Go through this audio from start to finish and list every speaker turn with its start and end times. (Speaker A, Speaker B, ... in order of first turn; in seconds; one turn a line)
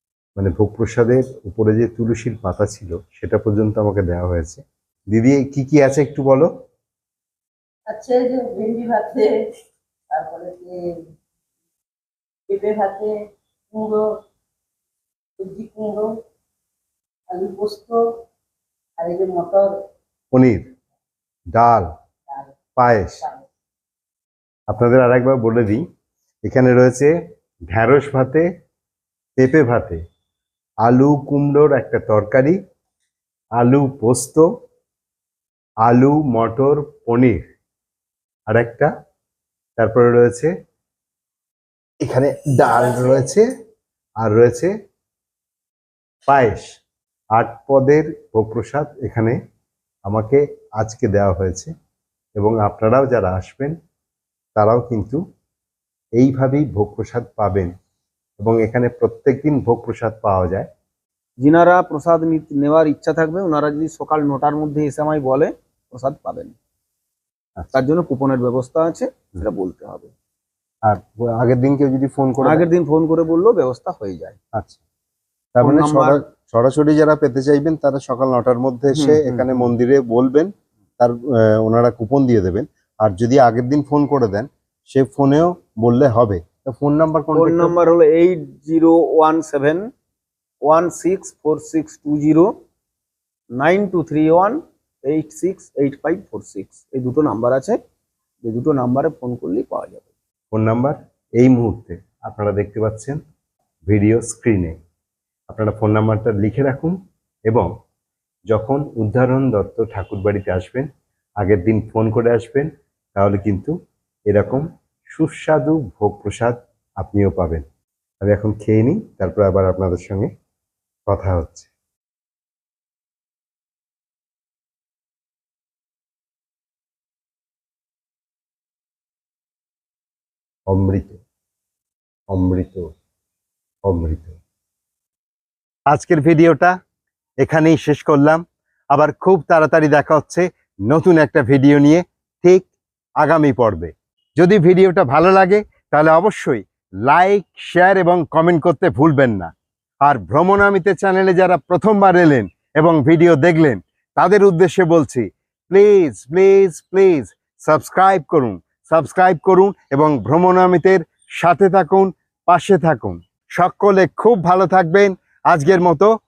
Speaker A: 0.3-6.5
Speaker B: 7.9-9.4
Speaker B: 10.1-10.9
Speaker B: 12.5-13.2
Speaker B: 13.7-14.2
Speaker B: 15.4-16.2
Speaker B: 17.3-18.0
Speaker B: 19.0-19.8
Speaker A: 20.3-20.6
Speaker A: 21.5-21.9
Speaker A: 22.8-23.2
Speaker A: 24.7-25.8
Speaker A: 26.4-27.1
Speaker A: 27.7-28.4
Speaker A: 29.4-30.0
Speaker A: 30.8-32.6
Speaker A: 33.6-34.4
Speaker A: 35.8-37.4
Speaker A: 38.5-38.9
Speaker A: 39.8-40.5
Speaker A: 42.0-43.4
Speaker A: 44.2-44.7
Speaker A: 46.3-46.7
Speaker A: 47.3-49.4
Speaker A: 50.1-51.7
Speaker A: 52.4-53.7
Speaker A: 54.5-55.2
Speaker A: 56.2-57.7
Speaker A: 58.4-60.7
Speaker C: 61.4-66.5
Speaker C: 67.7-70.1
Speaker A: 70.8-72.7
Speaker C: 72.4-74.4
Speaker A: 75.5-87.7
Speaker C: 75.6-76.2
Speaker C: 78.9-79.7
Speaker C: 87.3-89.8
Speaker C: 90.6-92.5
Speaker C: 93.5-97.8
Speaker C: 98.4-100.0
Speaker A: 100.5-103.2
Speaker A: 103.8-104.7
Speaker A: 105.5-106.9
Speaker A: 108.5-110.9
Speaker A: 111.4-113.7
Speaker A: 114.3-117.6
Speaker A: 118.2-120.3
Speaker A: 121.1-121.7
Speaker A: 130.7-131.2
Speaker A: 132.3-132.8
Speaker A: 133.9-134.4
Speaker A: 135.9-136.7
Speaker A: 137.4-142.7
Speaker A: 143.2-149.5
Speaker A: 150.0-166.1